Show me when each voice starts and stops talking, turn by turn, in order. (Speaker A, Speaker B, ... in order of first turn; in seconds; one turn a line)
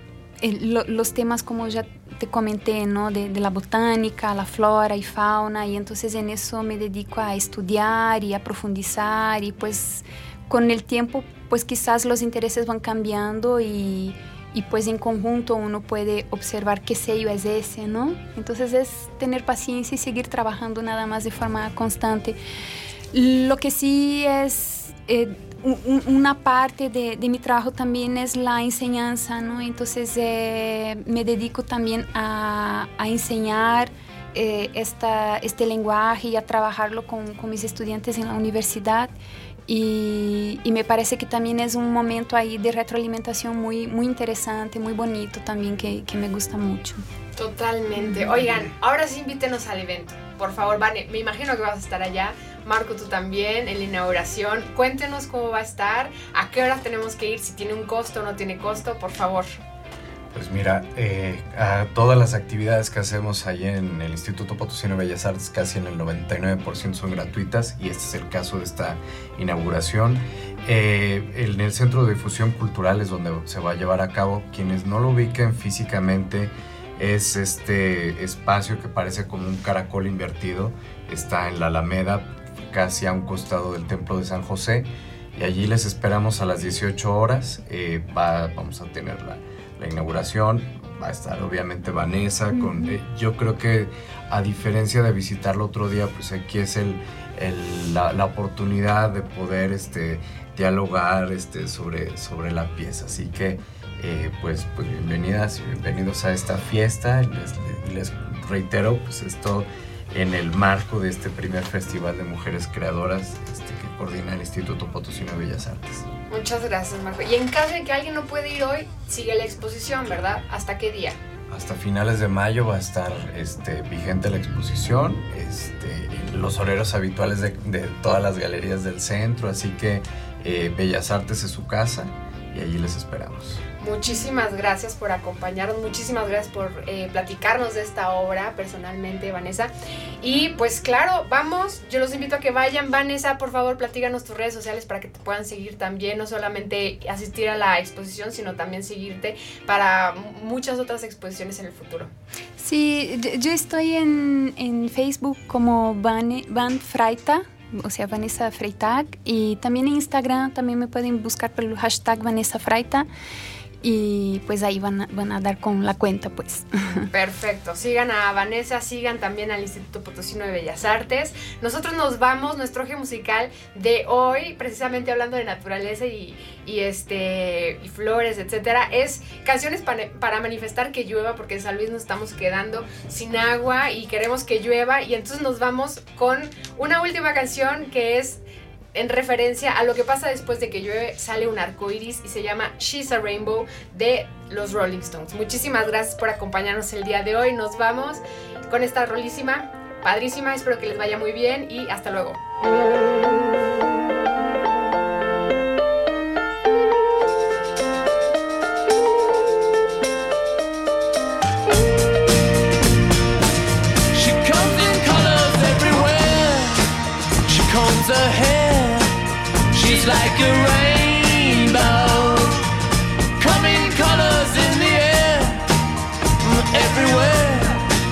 Speaker A: 0.4-22.4
Speaker A: 23.1-39.1
Speaker A: 39.7-47.0
Speaker B: 47.4-59.6
Speaker A: 48.0-48.4
Speaker C: 60.3-116.0
Speaker A: 92.5-93.0
Speaker B: 116.3-121.2
Speaker C: 121.5-133.6
Speaker B: 133.8-152.1
Speaker A: 152.6-163.1
Speaker A: 163.8-167.1
Speaker B: 167.1-188.4
Speaker B: 188.9-202.4
Speaker D: 214.1-216.8
Speaker D: 217.4-219.2
Speaker D: 219.7-222.6
Speaker D: 223.4-225.7
Speaker D: 226.4-227.8